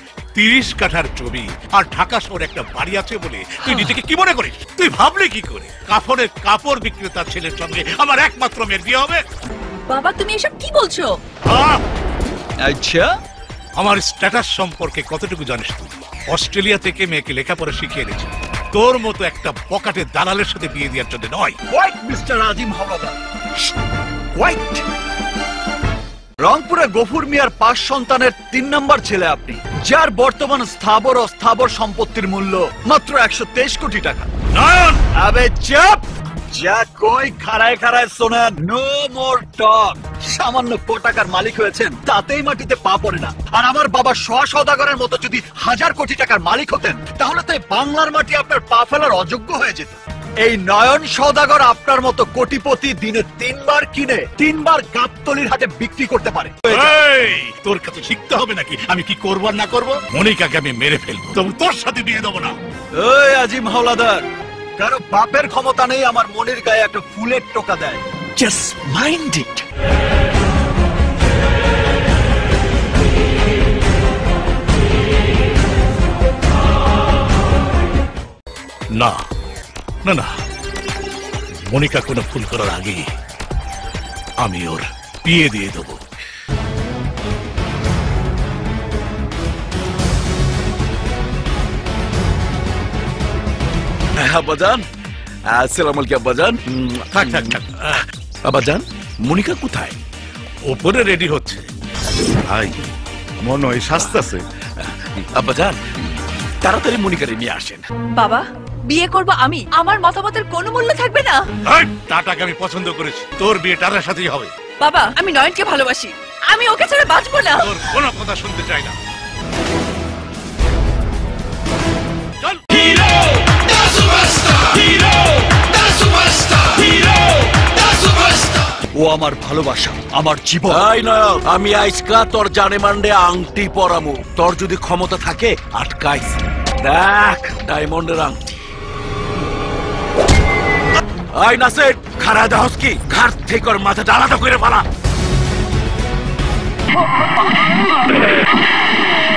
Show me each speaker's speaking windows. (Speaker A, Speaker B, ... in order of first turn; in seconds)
Speaker A: 0.3-9.2, 11.4-11.8, 13.8-21.6, 34.5-35.0, 56.7-62.6, 81.7-83.0, 84.4-86.0, 97.1-97.9, 100.7-101.7, 102.5-102.7, 103.4-104.4, 111.7-114.5, 117.6-118.9
Speaker B: 9.9-11.1, 108.1-111.4, 114.8-117.9
Speaker C: 12.6-13.1, 21.7-23.2, 24.3-24.8, 26.4-34.3, 35.1-56.9, 63.0-64.2, 64.8-69.6, 129.0-130.9
Speaker D: 94.2-94.8, 95.5-97.5, 98.5-100.0, 103.9-104.2, 104.8-105.8, 106.6-107.8, 130.7-138.5, 141.3-144.8